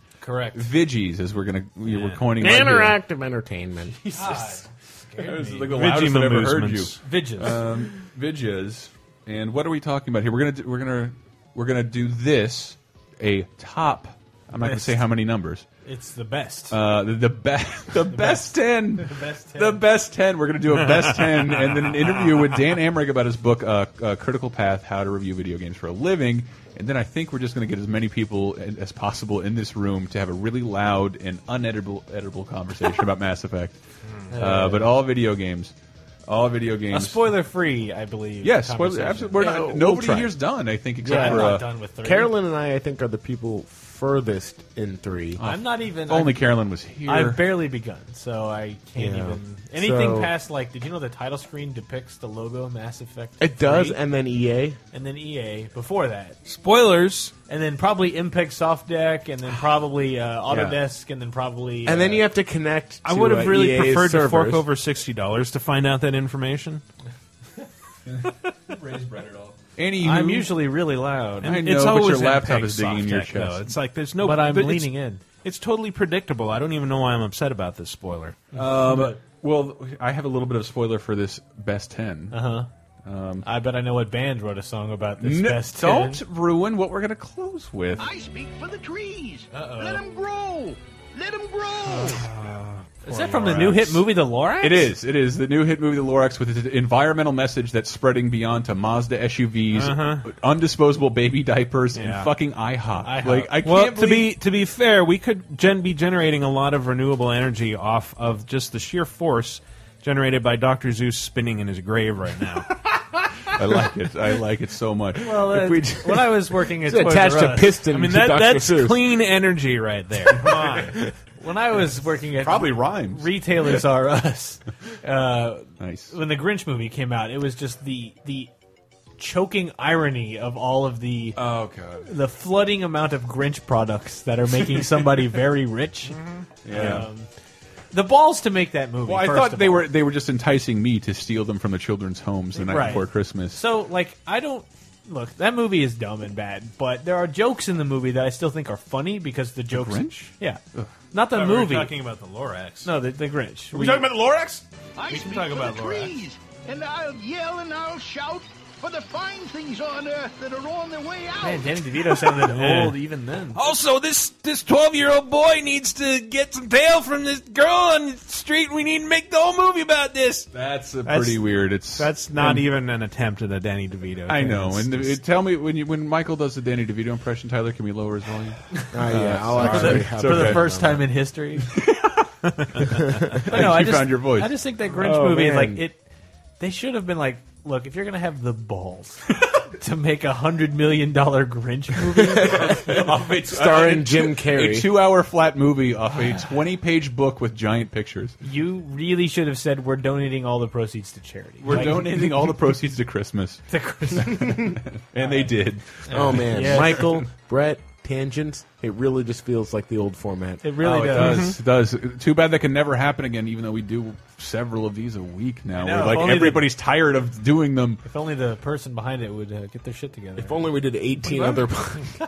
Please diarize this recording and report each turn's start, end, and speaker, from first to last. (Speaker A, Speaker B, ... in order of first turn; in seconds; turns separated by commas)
Speaker A: 0.2-0.7, Speaker B: 0.5-3.0, Speaker A: 1.9-2.2, Speaker C: 2.4-4.3, Speaker A: 4.1-5.8, Speaker B: 5.2-15.7, Speaker D: 5.7-7.0, Speaker A: 7.0-7.6, Speaker A: 14.6-15.0, Speaker A: 15.8-16.8, Speaker B: 16.7-33.8, Speaker A: 18.1-19.8, Speaker D: 20.9-21.6, Speaker A: 34.3-34.9, Speaker B: 34.3-35.7, Speaker B: 36.2-37.3, Speaker A: 36.9-39.7, Speaker B: 38.4-41.7, Speaker C: 39.4-40.4, Speaker C: 41.0-45.4, Speaker A: 41.0-42.3, Speaker B: 45.4-47.4, Speaker A: 45.4-46.5, Speaker A: 47.0-54.0, Speaker C: 49.0-50.3, Speaker C: 53.4-54.8, Speaker A: 54.9-56.4, Speaker D: 56.4-57.3, Speaker A: 57.5-62.3, Speaker C: 60.5-60.8, Speaker C: 61.8-64.7, Speaker D: 63.0-66.8, Speaker B: 68.1-70.5, Speaker A: 70.0-71.6, Speaker B: 71.4-73.7, Speaker D: 71.4-78.5, Speaker A: 74.2-75.2, Speaker A: 78.5-79.1, Speaker B: 78.5-82.4, Speaker A: 82.3-82.7, Speaker B: 83.0-83.5, Speaker A: 83.4-86.2, Speaker B: 85.2-88.1, Speaker E: 88.0-92.2, Speaker A: 89.5-90.0, Speaker A: 91.9-92.2, Speaker D: 92.3-94.0, Speaker A: 93.0-94.9, Speaker B: 94.6-104.4, Speaker D: 99.7-100.3, Speaker D: 101.9-102.3, Speaker A: 103.0-103.6, Speaker D: 103.6-112.7, Speaker B: 113.5-116.5, Speaker A: 115.2-117.9, Speaker C: 116.8-119.1, Speaker D: 117.9-121.0, Speaker A: 120.5-120.8, Speaker A: 121.4-128.5, Speaker B: 122.4-123.8, Speaker B: 125.8-126.1, Speaker A: 129.2-131.4, Speaker B: 131.3-132.1, Speaker A: 132.0-136.2, Speaker D: 136.1-136.9, Speaker B: 136.6-137.1, Speaker A: 136.7-137.3, Speaker A: 137.9-139.9, Speaker B: 139.0-143.6, Speaker D: 142.6-143.0, Speaker A: 142.6-151.9, Speaker B: 149.7-150.9, Speaker D: 151.3-152.9, Speaker A: 152.8-154.1, Speaker D: 153.7-156.2, Speaker E: 155.0-162.1, Speaker A: 161.4-163.7, Speaker D: 162.4-163.0, Speaker D: 163.5-170.5, Speaker B: 170.5-172.6, Speaker A: 171.1-171.4, Speaker D: 171.9-175.2, Speaker B: 174.3-180.8, Speaker C: 178.9-181.0, Speaker A: 179.5-181.7, Speaker B: 181.7-182.2, Speaker B: 183.3-184.6, Speaker A: 183.5-186.0, Speaker C: 184.9-185.8, Speaker A: 186.6-193.0, Speaker C: 192.3-194.9, Speaker B: 192.6-198.4, Speaker A: 198.4-202.3, Speaker B: 201.6-207.2, Speaker A: 203.7-204.6, Speaker A: 205.2-205.5, Speaker A: 206.0-207.2, Speaker C: 206.1-210.6, Speaker A: 210.6-211.5, Speaker B: 210.8-218.0, Speaker D: 211.1-211.5, Speaker A: 215.8-216.7, Speaker A: 218.0-220.7, Speaker C: 220.4-222.1